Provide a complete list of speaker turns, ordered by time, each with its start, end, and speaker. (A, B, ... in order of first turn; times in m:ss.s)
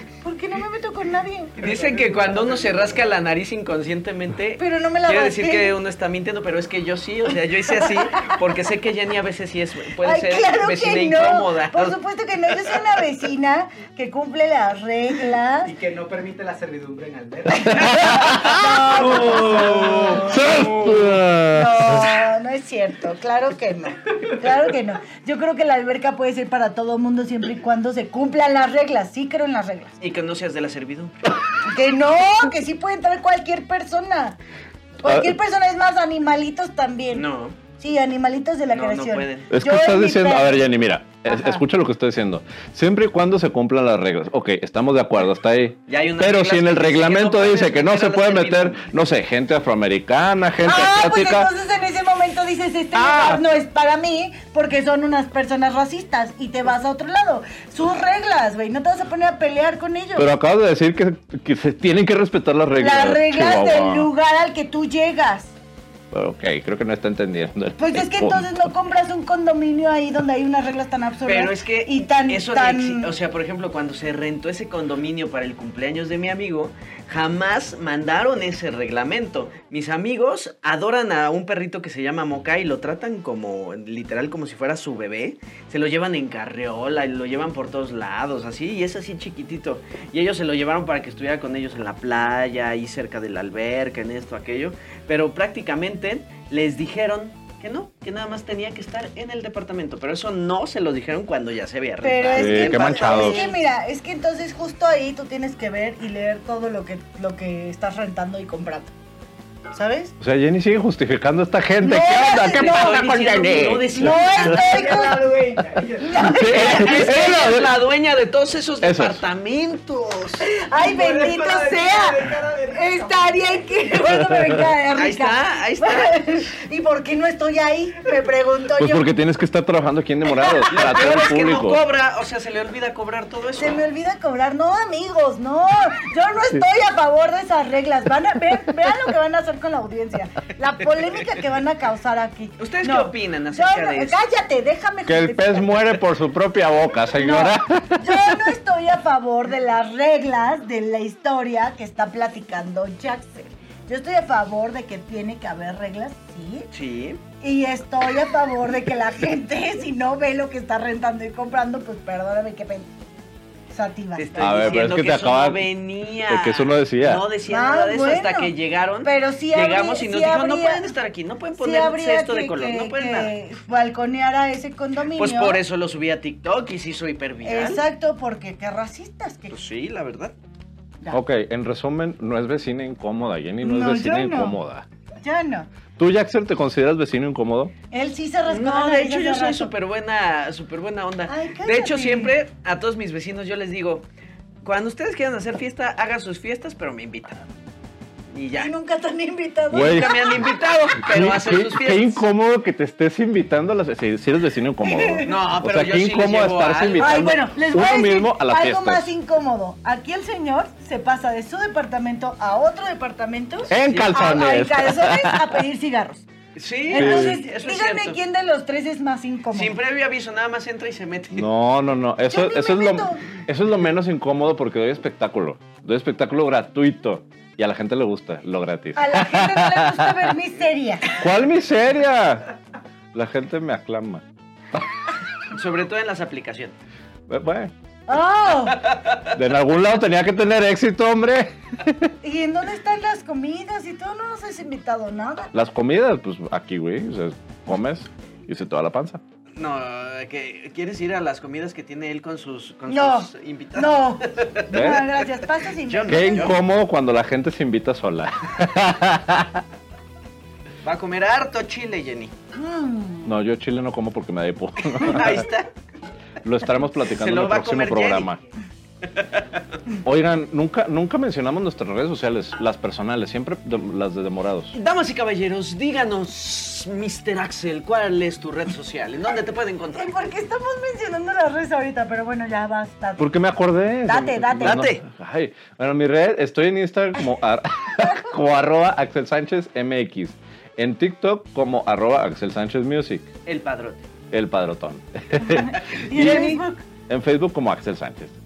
0:00.2-0:01.6 A
0:01.6-0:03.1 B
0:01.6-0:12.0 C
0:04.6-0:05.8 A
0:10.0-0:15.7 A
0:15.6-0:20.7 B
0:17.6-0:22.1 D
0:17.7-0:20.7 A
0:19.6-0:21.2 C
0:21.5-0:30.0 A
0:30.0-0:31.1 C
0:31.6-0:34.4 A
0:35.0-0:37.3 A
0:35.0-0:35.3 D
0:37.1-0:37.6 C
0:37.8-0:40.7 A
0:38.7-0:39.5 C
0:39.5-0:51.5 D
0:41.3-0:41.6 A
0:45.9-0:48.8 C
0:50.6-1:00.3 A
0:53.0-0:53.4 D
1:00.2-1:04.1 D
1:02.8-1:05.5 A
1:06.1-1:08.6 D
1:07.8-1:13.1 A
1:11.3-1:43.6 C
1:42.0-1:48.9 A
1:42.4-1:43.4 D
1:49.7-1:50.1 A
1:50.2-1:54.5 D
1:51.8-1:53.0 A
1:52.5-1:54.6 C
1:53.9-1:55.3 A
1:54.4-1:56.4 B
1:56.0-1:57.6 A
1:56.2-1:57.8 D
1:56.5-2:00.5 C
1:58.8-1:59.2 D
2:00.5-2:09.1 A
2:00.7-2:03.8 B
2:04.1-2:04.7 D
2:04.9-2:06.2 C
2:08.8-2:11.8 D
2:10.7-2:13.8 C
2:13.6-2:26.0 A
2:22.6-2:24.2 C
2:25.1-2:28.6 D
2:27.2-2:36.7 A
2:36.7-2:37.2 C
2:37.4-2:42.9 A
2:43.7-2:45.0 A
2:44.2-2:53.3 C
2:44.4-2:45.7 D
2:46.3-2:47.3 D
2:47.5-2:48.5 A
2:49.0-2:51.0 A
2:51.6-2:55.6 A
2:55.1-2:57.8 C
2:57.4-2:59.6 A
2:59.5-3:00.3 C
3:01.1-3:04.9 D
3:03.6-3:04.6 A
3:05.2-3:05.7 A
3:06.0-3:07.7 D
3:07.9-3:09.7 A
3:08.5-3:14.1 C
3:11.3-3:12.3 A
3:14.6-3:17.4 C
3:18.3-3:18.7 C
3:18.5-3:20.5 A
3:19.7-3:20.4 D
3:19.7-3:22.2 C
3:21.0-3:29.1 D
3:24.8-3:25.4 A
3:25.2-3:27.4 C
3:27.0-3:36.3 A
3:33.7-3:35.6 D
3:33.8-3:34.1 C
3:36.6-3:38.2 C
3:36.9-3:39.8 A
3:36.9-3:37.4 D
3:39.5-3:41.5 C
3:41.4-3:50.3 D
3:42.3-3:43.2 A
3:49.0-3:51.1 A
3:51.2-3:52.5 D
3:53.1-3:54.2 D
3:55.5-3:56.8 C
3:57.3-3:57.7 D
3:58.1-3:58.9 A
3:58.7-3:59.3 C
3:59.3-4:02.1 D
4:02.2-4:05.5 A
4:05.5-4:09.2 D
4:09.6-4:16.6 C
4:12.9-4:16.6 A
4:14.7-4:15.1 D
4:16.1-4:19.6 D
4:20.8-4:22.3 C
4:22.5-4:23.3 A
4:23.2-4:25.5 D
4:24.9-4:25.7 C
4:26.4-4:28.4 D
4:27.1-4:28.3 C
4:29.2-4:29.4 C
4:30.0-4:34.8 D
4:34.7-4:40.1 C
4:40.0-4:43.3 A
4:43.2-4:53.3 D
4:44.1-4:44.9 A
4:44.6-4:45.0 C
4:48.0-4:48.4 A
4:53.5-4:54.1 C
4:54.3-4:58.4 D
4:55.4-4:56.8 A
4:56.1-4:56.5 C